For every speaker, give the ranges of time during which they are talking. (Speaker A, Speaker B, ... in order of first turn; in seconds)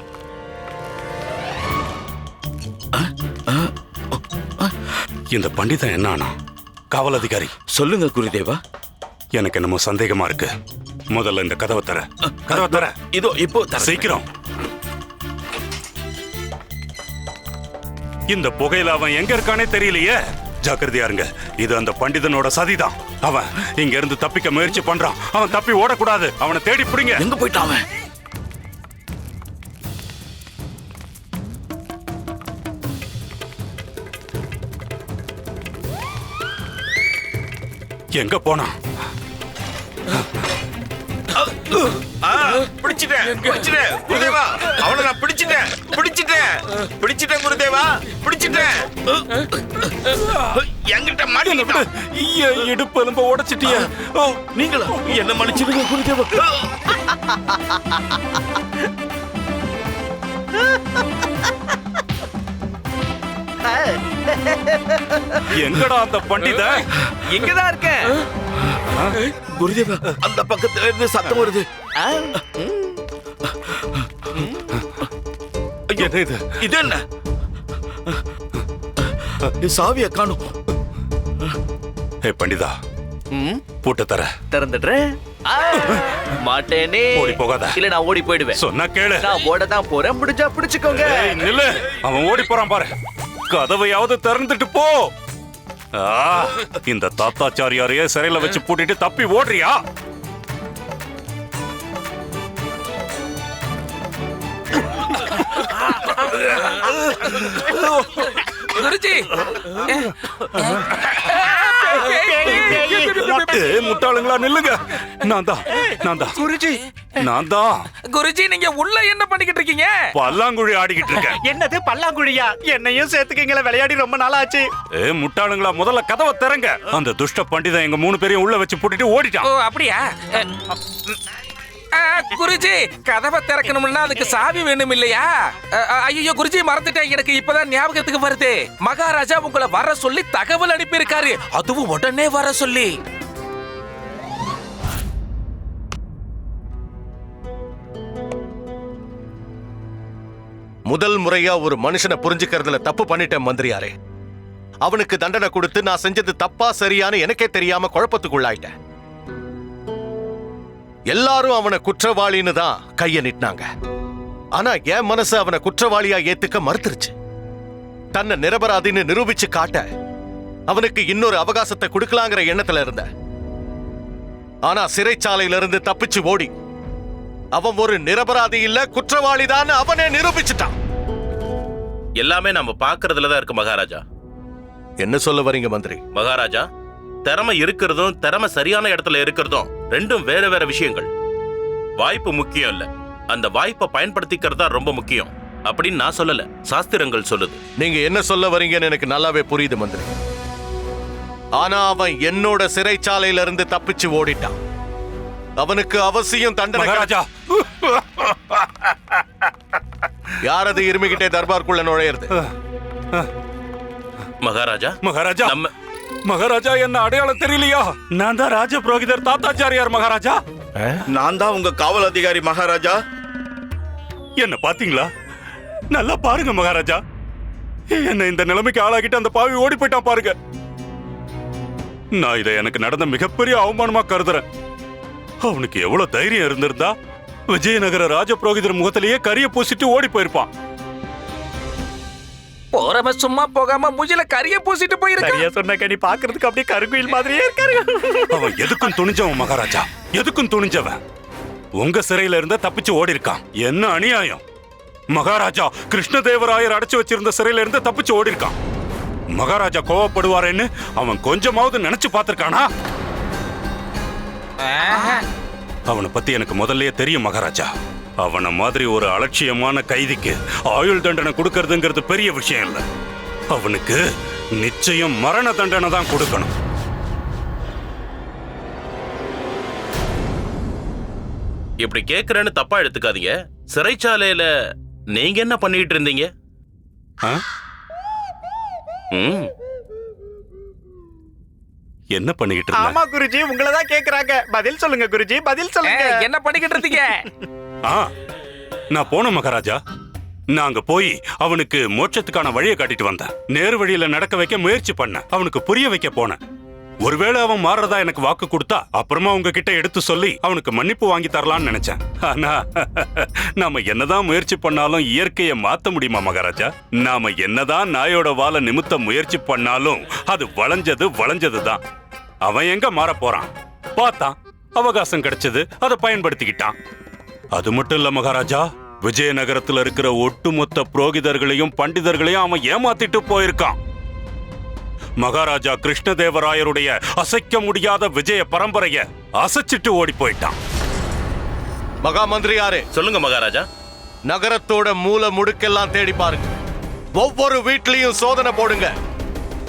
Speaker A: 2.9-3.7, 7.7-8.6, 12.3-14.2, 27.2-27.8, 41.3-51.9, 53.6-56.9, 69.5-71.7, 75.9-77.0, 79.6-80.5, 221.1-222.9
Speaker B: 5.3-6.3, 6.9-7.5, 9.3-10.5, 11.1-13.0, 13.8-14.3, 18.3-27.2, 38.1-38.7, 51.4-53.9, 65.5-66.9, 68.9-69.2, 76.0-76.6, 82.2-82.7, 83.8-84.3, 87.1-87.8, 88.5-89.3, 90.9-92.9, 93.5-95.1, 95.9-99.8, 107.4-107.8, 112.7-116.4, 117.2-117.9, 120.1-121.4, 125.0-129.5, 206.7-209.5, 215.0-215.6, 216.3-220.4, 224.4-225.1, 225.9-227.0, 227.9-230.3, 232.2-234.4, 235.4-236.9, 237.5-240.5, 248.3-251.0, 251.8-254.4, 255.1-258.5, 259.4-262.7, 265.9-267.7, 268.2-272.8, 273.5-274.0, 274.6-276.5, 292.1-293.0, 298.9-299.8, 300.5-306.4, 307.0-321.8, 322.4-326.7, 327.5-333.8, 335.2-340.6
Speaker C: 57.5-57.8, 60.7-61.0, 63.6-65.5, 67.2-68.1, 72.0-72.9, 83.3-83.6, 84.5-88.6, 89.2-91.5
Speaker D: 108.7-109.3, 109.8-114.0, 118.1-120.0, 129.4-130.5, 131.9-142.9, 242.7-245.4, 264.6-265.2, 295.8-297.2
Speaker E: 112.1-113.4, 116.3-116.8, 121.2-124.7, 245.2-249.0, 292.7-296.2
Speaker F: 150.9-153.9, 154.8-158.7, 161.1-163.7, 164.6-167.1, 168.1-169.9, 170.7-173.1, 174.7-176.5, 177.5-180.7, 185.0-186.0, 197.8-200.1, 201.6-204.6, 205.6-207.1, 210.4-212.3, 342.0-342.9, 344.3-346.5, 347.2-348.9
Speaker G: 182.2-184.0, 186.1-186.7, 187.2-191.1, 192.0-197.6, 214.4-215.7, 281.8-284.5, 285.1-286.3, 289.1-289.5, 342.9-343.6